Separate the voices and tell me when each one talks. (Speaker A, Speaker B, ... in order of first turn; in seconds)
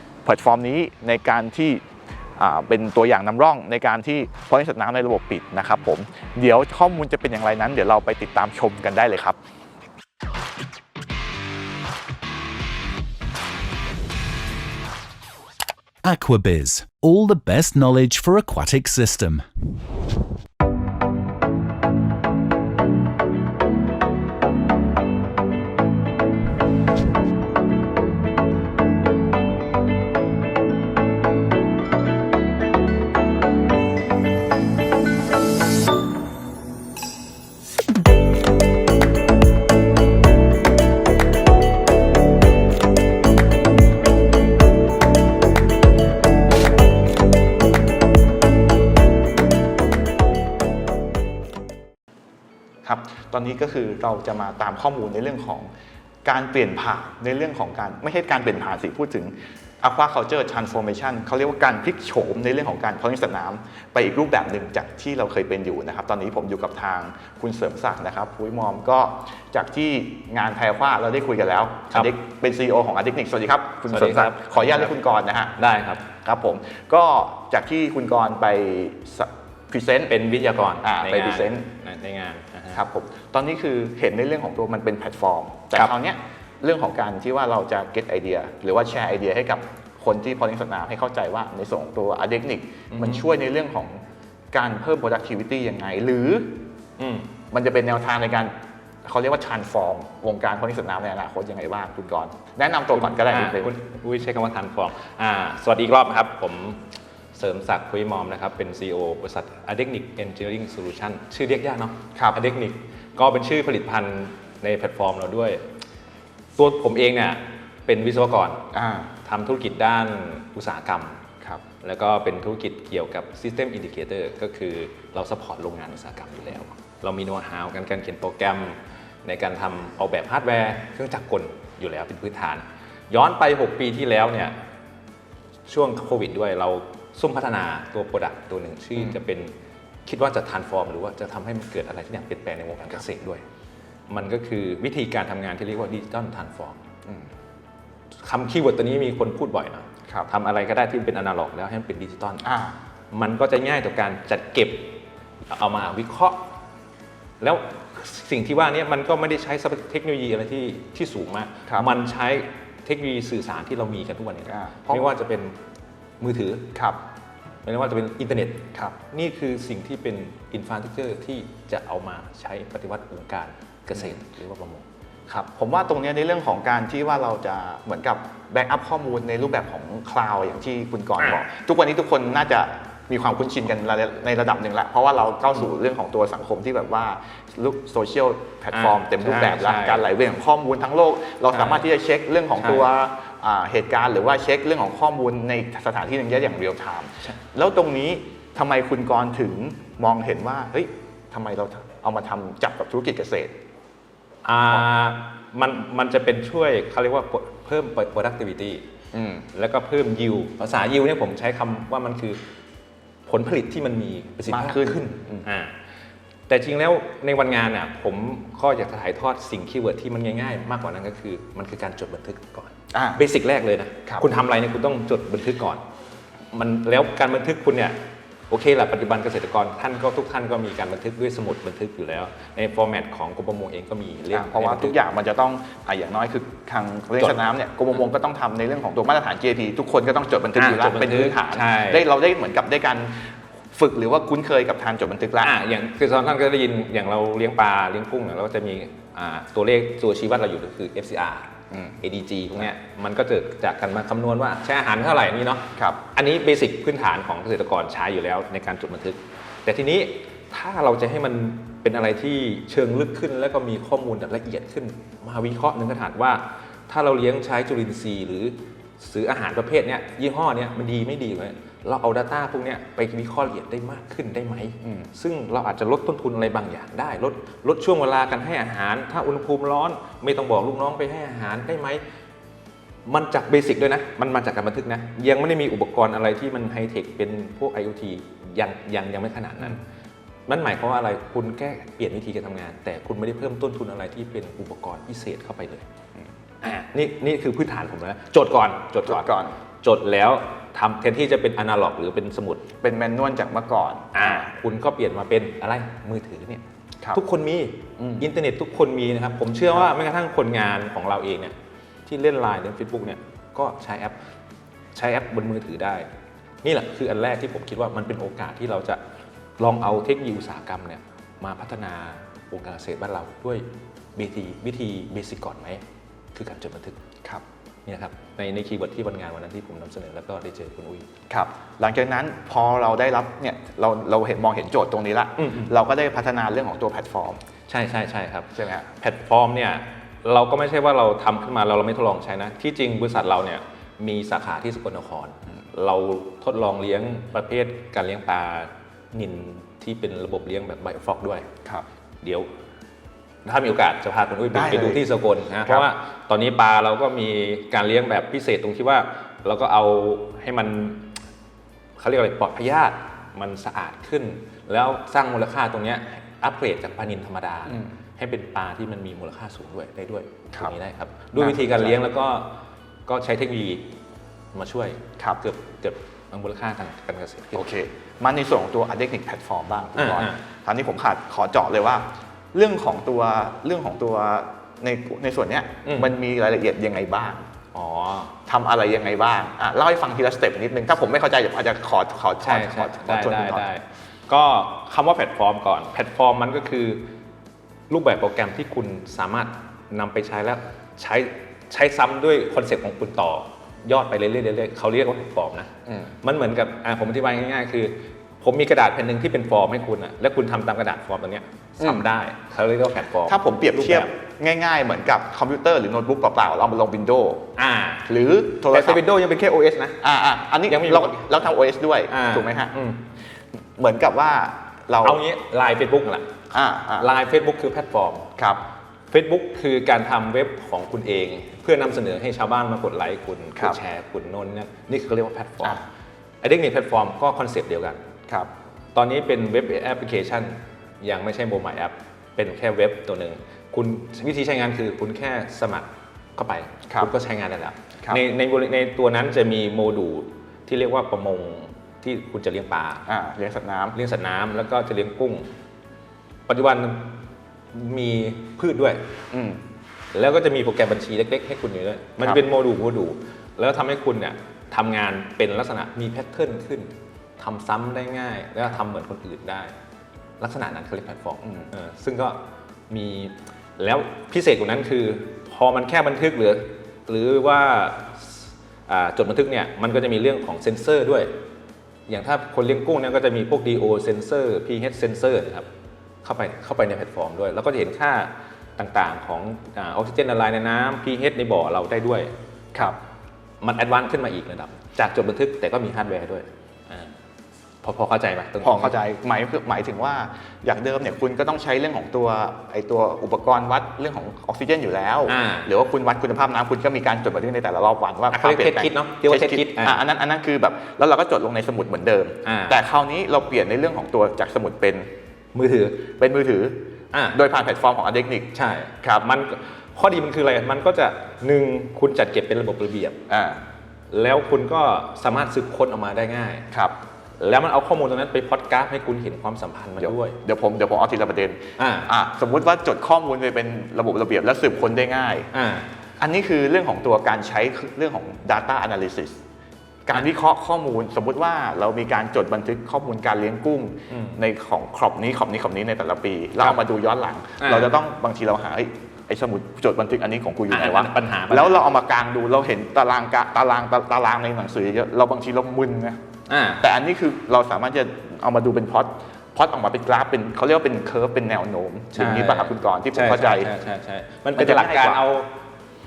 Speaker A: 0.2-1.8, 2.4-9.4, 52.9-55.7, 56.2-75.5, 76.2-80.2, 80.8-81.7, 82.7-96.7, 97.5-98.5, 99.0-103.7, 118.7-119.1, 152.4-152.8, 164.5-165.1, 175.3-203.6, 209.1-209.5, 214.5-215.5, 222.9-223.2, 234.3-245.6, 251.7-252.0, 255.8-256.0, 274.8-275.1, 299.1-299.6, 302.8-304.5, 308.0-308.3, 331.3-337.4, 338.6-338.9, 354.5-355.1, 371.4-372.0, 377.5-387.4, 388.5-393.7, 405.9-406.1, 411.8-412.1, 413.3-417.5, 418.1-419.0, 420.0-422.8, 423.8-425.2, 426.5-427.1, 428.4-428.6, 453.1-454.0, 459.3-459.6, 471.4-471.7, 498.6-515.1, 516.0-516.8, 517.3-519.3, 523.3-523.6, 530.0-535.5, 536.2-539.4, 540.1-556.2, 556.8-563.7, 564.5-565.2
Speaker B: 16.0-19.4
Speaker C: 73.9-74.9, 75.6-76.0, 80.1-82.8, 92.9-93.3, 97.0-97.3, 102.9-115.6, 116.6-118.7, 119.2-121.2, 121.8-134.6, 135.7-139.5, 140.1-143.4, 144.1-146.8, 148.2-152.4, 153.1-156.5, 157.4-165.6, 166.2-166.7, 167.6-174.9, 188.7-190.1, 191.5-191.9, 192.6-192.9, 204.4-208.8, 209.5-212.4, 213.3-215.8, 216.5-225.8, 226.5-235.0, 240.6-242.1, 245.4-282.0, 283.1-289.8, 290.5-295.9, 296.6-299.3, 299.8-302.6, 304.1-311.6, 312.1-314.2, 314.9-316.1, 316.6-319.0, 319.6-327.0, 327.9-331.1, 335.4-335.7, 337.7-351.5, 352.2-352.5, 353.4-361.2, 362.0-373.9, 374.5-377.6, 380.0-380.4, 385.9-386.1, 387.7-388.4, 392.4-397.1, 397.9-405.7, 406.2-414.1, 417.6-418.1, 418.6-420.0, 420.7-421.2, 422.1-423.0, 425.0-426.3, 427.0-428.3, 429.1-435.8, 436.4-438.0, 438.9-453.1, 453.9-455.5, 456.5-457.2, 457.7-459.0, 460.1-469.7, 470.4-481.3, 482.1-485.7, 486.2-492.3, 493.6-497.2, 497.8-499.0, 505.3-505.7, 508.3-510.0, 512.5-512.8, 515.5-516.0, 517.1-517.4, 518.5-523.2, 524.1-526.7, 527.4-530.4, 531.8-532.1, 535.5-535.9, 544.1-544.4, 547.6-547.9, 550.7-551.8, 556.5-556.8, 562.1-565.5